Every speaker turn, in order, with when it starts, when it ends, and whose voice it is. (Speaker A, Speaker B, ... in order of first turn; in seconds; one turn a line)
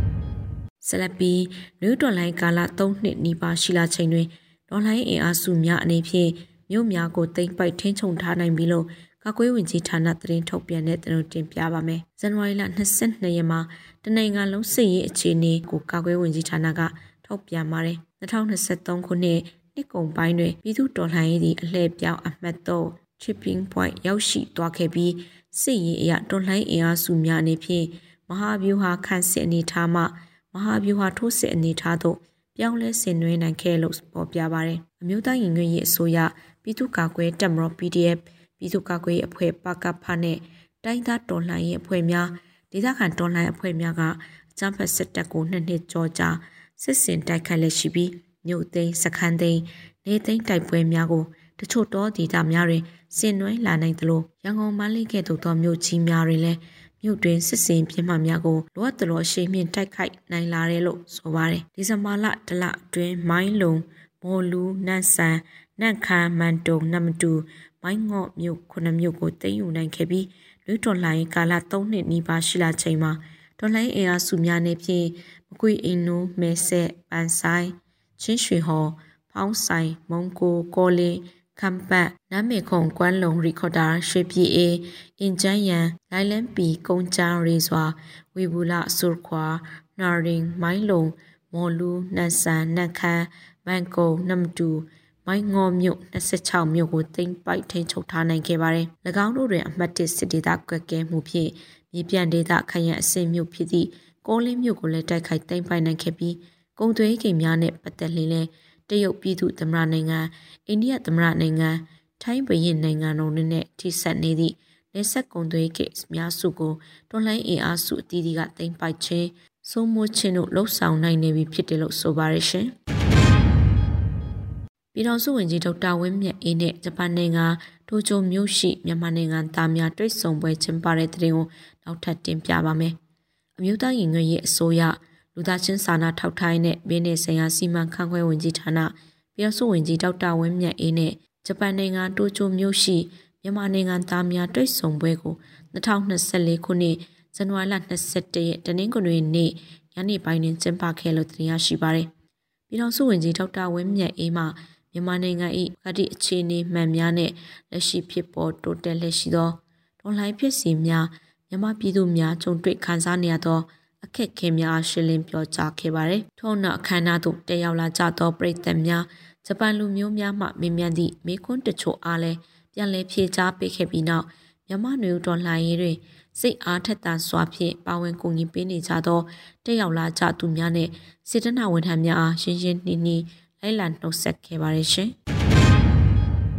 Speaker A: 0.8-122.7
Speaker A: 124.9-133.0
Speaker A: 133.6-152.1
Speaker A: 152.7-185.1